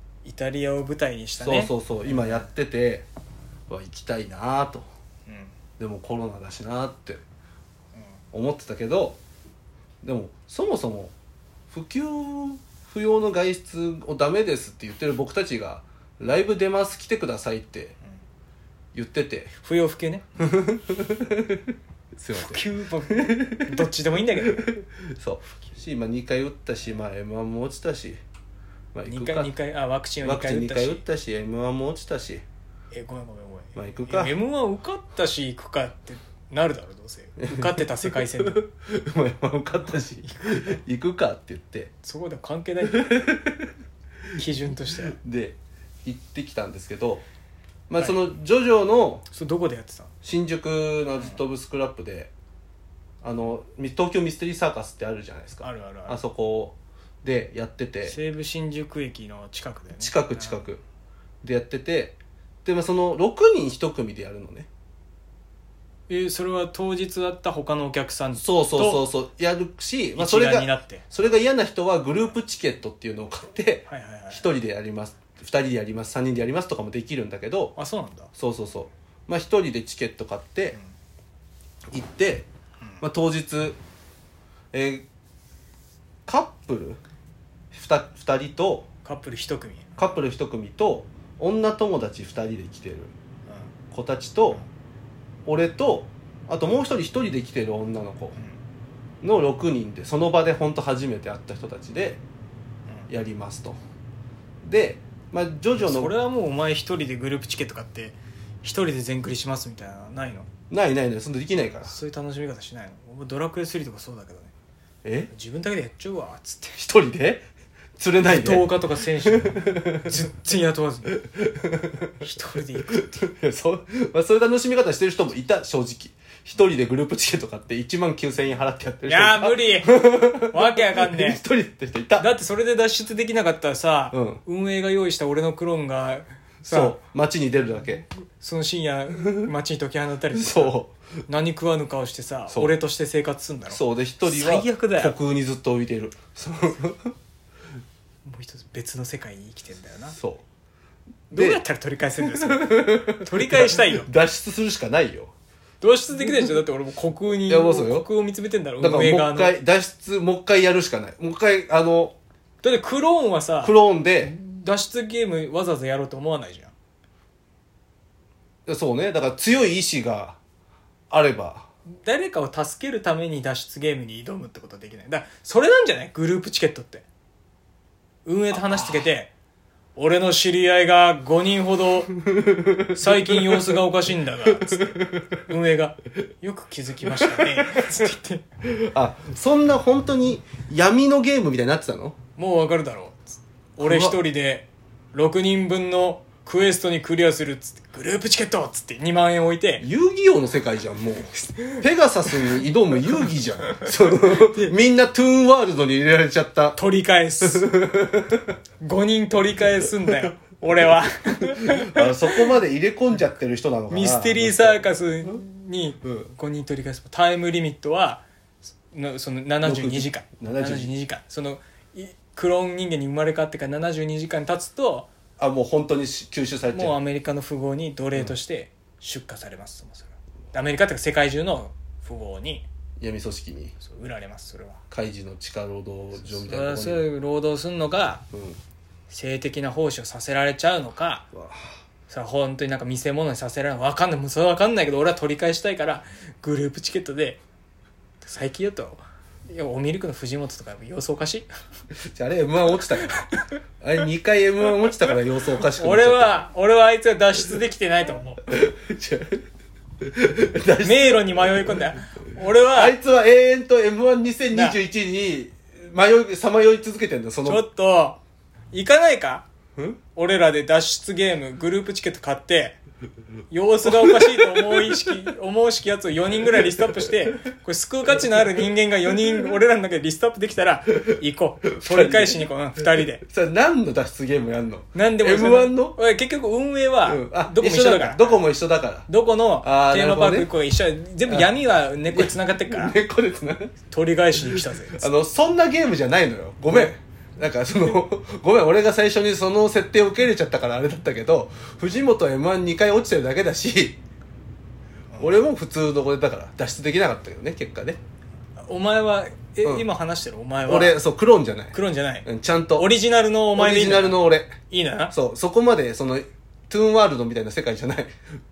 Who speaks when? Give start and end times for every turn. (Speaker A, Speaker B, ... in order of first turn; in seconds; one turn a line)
Speaker A: 0.2-2.5
Speaker B: 1.4-3.1
Speaker B: 3.7-4.9
Speaker A: 5.3-5.5
Speaker B: 5.8-7.2
Speaker B: 8.3-9.2
Speaker B: 10.0-11.1
Speaker B: 11.7-18.0
Speaker B: 18.9-19.5
Speaker A: 19.6-20.3
Speaker B: 20.4-21.6
Speaker B: 22.2-23.7
Speaker A: 22.4-24.7
Speaker B: 24.6-28.2
Speaker B: 28.9-29.5
Speaker A: 29.1-31.0
Speaker B: 30.2-32.4
Speaker A: 32.9-38.6
Speaker B: 33.8-34.4
Speaker B: 37.4-41.9
Speaker A: 42.0-43.2
Speaker B: 42.9-43.7
Speaker A: 44.3-45.2
Speaker B: 45.2-47.2
Speaker B: 47.9-49.3
Speaker A: 49.3-50.1
Speaker B: 50.2-52.3
Speaker B: 53.2-58.2
Speaker A: 55.6-56.2
Speaker A: 58.0-60.7
Speaker B: 60.0-60.8
Speaker B: 61.4-64.7
Speaker A: 66.1-69.0
Speaker B: 68.3-77.8
Speaker A: 70.2-71.1
Speaker A: 73.9-74.5
Speaker A: 77.8-78.3
Speaker B: 78.3-80.8
Speaker B: 81.9-82.5
Speaker B: 83.0-83.8
Speaker B: 84.7-85.1
Speaker B: 86.3-87.0
Speaker B: 87.7-88.9
Speaker A: 89.0-90.0
Speaker B: 90.0-93.1
Speaker B: 93.9-94.6
Speaker B: 95.5-98.4
Speaker B: 99.2-102.2
Speaker B: 103.1-103.8
Speaker B: 104.6-106.1
Speaker A: 105.8-110.5
Speaker B: 110.7-111.9
Speaker A: 111.8-114.5
Speaker B: 115.0-115.3
Speaker A: 115.3-116.8
Speaker B: 116.8-120.1
Speaker A: 118.3-121.2
Speaker B: 121.1-122.1
Speaker A: 122.2-123.3
Speaker B: 122.9-132.3
Speaker A: 129.1-131.4
Speaker A: 132.2-137.0
Speaker B: 134.1-134.4
Speaker B: 136.7-138.1
Speaker A: 138.4-145.2
Speaker B: 140.3-141.0
Speaker B: 143.7-147.2
Speaker A: 148.2-150.2
Speaker B: 150.2-150.4
Speaker A: 151.3-154.1
Speaker B: 151.3-151.6
Speaker B: 152.2-155.3
Speaker A: 155.8-159.6
Speaker B: 157.5-158.1
Speaker B: 158.8-162.2
Speaker A: 162.6-166.7
Speaker B: 163.6-164.3
Speaker B: 168.7-170.4
Speaker B: 171.1-171.7
Speaker A: 172.0-177.1
Speaker A: 178.2-179.3
Speaker B: 178.5-179.1
Speaker A: 180.0-182.1
Speaker B: 182.2-183.8
Speaker A: 182.9-188.4
Speaker B: 184.6-185.4
Speaker B: 187.2-187.8
Speaker B: 188.6-192.2
Speaker A: 192.4-199.8
Speaker B: 193.8-194.2
Speaker B: 199.8-206.8
Speaker A: 201.6-202.6
Speaker A: 203.7-204.7
Speaker A: 206.8-207.7
Speaker B: 207.4-208.5
Speaker A: 208.8-212.6
Speaker B: 211.4-214.9
Speaker A: 213.9-218.2
Speaker B: 216.1-216.3
Speaker A: 218.9-225.1
Speaker B: 219.6-220.9
Speaker B: 225.4-227.0
Speaker A: 226.7-232.7
Speaker B: 233.0-233.8
Speaker A: 233.8-234.8
Speaker B: 234.9-237.1
Speaker A: 236.2-238.3
Speaker B: 238.3-238.6
Speaker A: 239.1-241.3
Speaker B: 241.3-241.8
Speaker A: 242.1-247.4
Speaker A: 248.2-251.5
Speaker B: 252.1-256.4
Speaker A: 253.0-253.4
Speaker A: 255.6-258.4
Speaker B: 258.5-259.4
Speaker B: 260.0-261.8
Speaker A: 260.8-263.0
Speaker B: 262.7-267.6
Speaker A: 264.5-264.8
Speaker A: 267.4-268.2
Speaker A: 268.7-269.5
Speaker A: 270.2-272.8
Speaker A: 273.5-283.2
Speaker B: 273.9-275.2
Speaker B: 276.6-277.4
Speaker B: 281.8-286.0
Speaker A: 284.9-288.5
Speaker B: 287.1-289.1
Speaker A: 289.1-293.0
Speaker B: 289.6-290.5
Speaker B: 291.2-291.5
Speaker B: 292.1-293.8
Speaker A: 293.9-295.1
Speaker B: 294.4-304.0
Speaker A: 296.7-297.0
Speaker A: 305.1-305.4
Speaker B: 305.2-308.0
Speaker A: 308.6-311.0
Speaker B: 310.7-312.9
Speaker A: 311.7-315.1
Speaker B: 313.6-314.6
Speaker B: 315.1-318.1